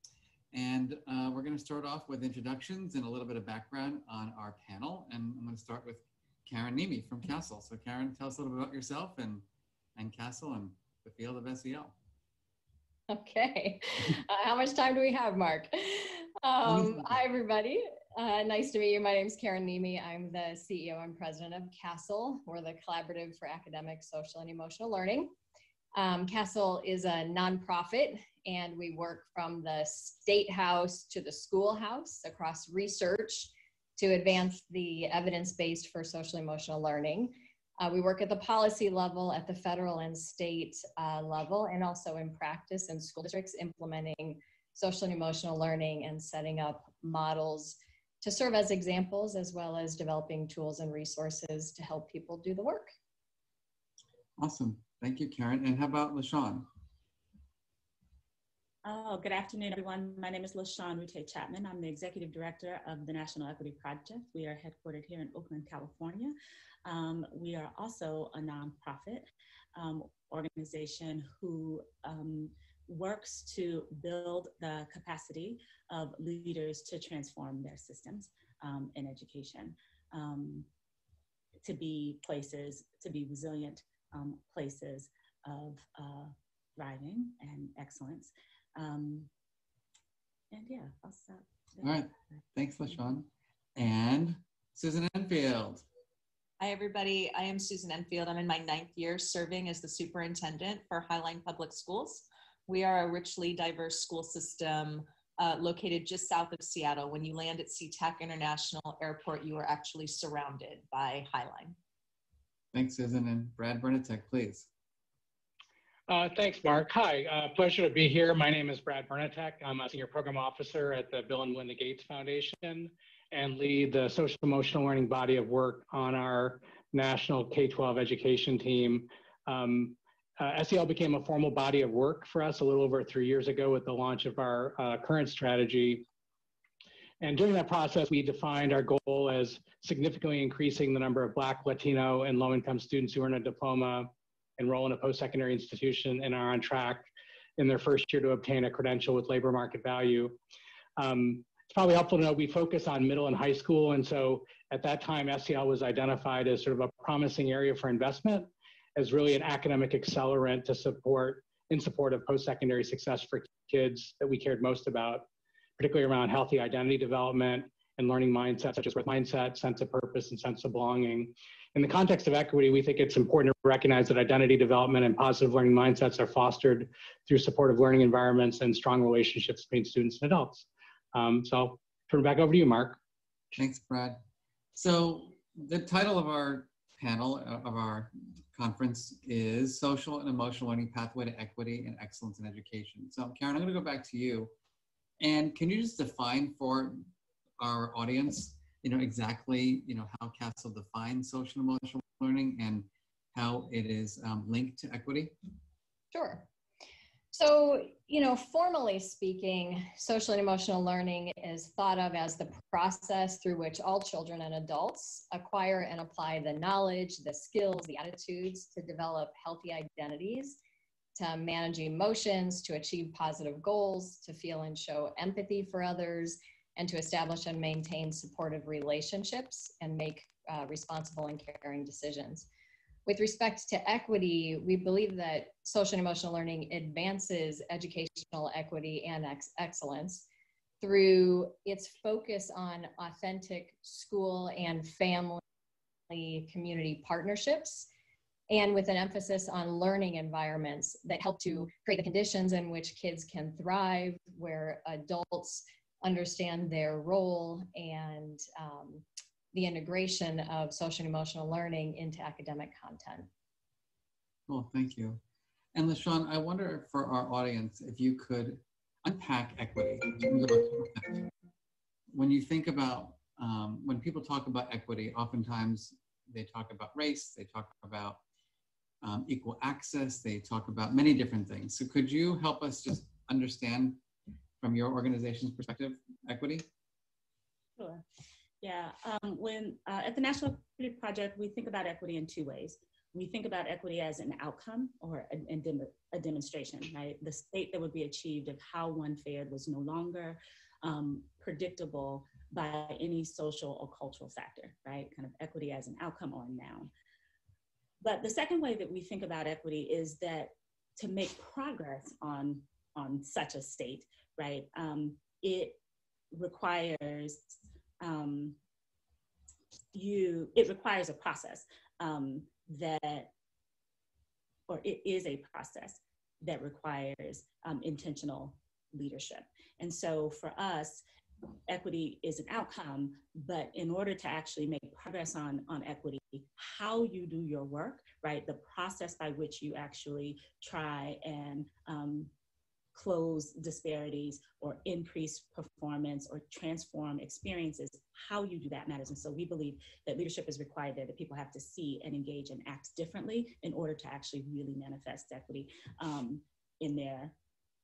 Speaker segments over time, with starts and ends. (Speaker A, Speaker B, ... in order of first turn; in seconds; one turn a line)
Speaker A: 0.5-11.9
Speaker B: 13.1-25.3
Speaker A: 16.6-17.2
Speaker B: 26.0-52.9
Speaker A: 54.4-56.7
Speaker C: 58.8-80.7
Speaker C: 81.6-89.3
Speaker C: 90.5-92.2
Speaker A: 91.8-95.8
Speaker D: 96.6-111.8
Speaker A: 112.7-114.7
Speaker E: 116.1-136.0
Speaker E: 137.2-147.1
Speaker E: 147.6-150.4
Speaker E: 151.0-165.2
Speaker E: 165.8-183.0
Speaker A: 183.6-184.2
Speaker A: 184.8-194.5
Speaker A: 195.2-197.1
Speaker A: 197.6-205.3
Speaker B: 206.1-206.5
Speaker B: 207.3-220.6
Speaker B: 221.2-232.5
Speaker B: 233.1-240.3
Speaker B: 240.8-245.4
Speaker B: 246.1-247.9
Speaker B: 248.5-263.3
Speaker A: 264.5-265.2
Speaker A: 265.7-271.2
Speaker A: 272.1-278.2
Speaker A: 279.0-284.0
Speaker A: 284.6-286.7
Speaker C: 287.8-288.0
Speaker C: 288.6-306.9
Speaker C: 308.0-315.8
Speaker C: 316.3-318.6
Speaker C: 319.9-323.3
Speaker C: 324.7-331.0
Speaker C: 331.7-342.3
Speaker C: 342.9-357.4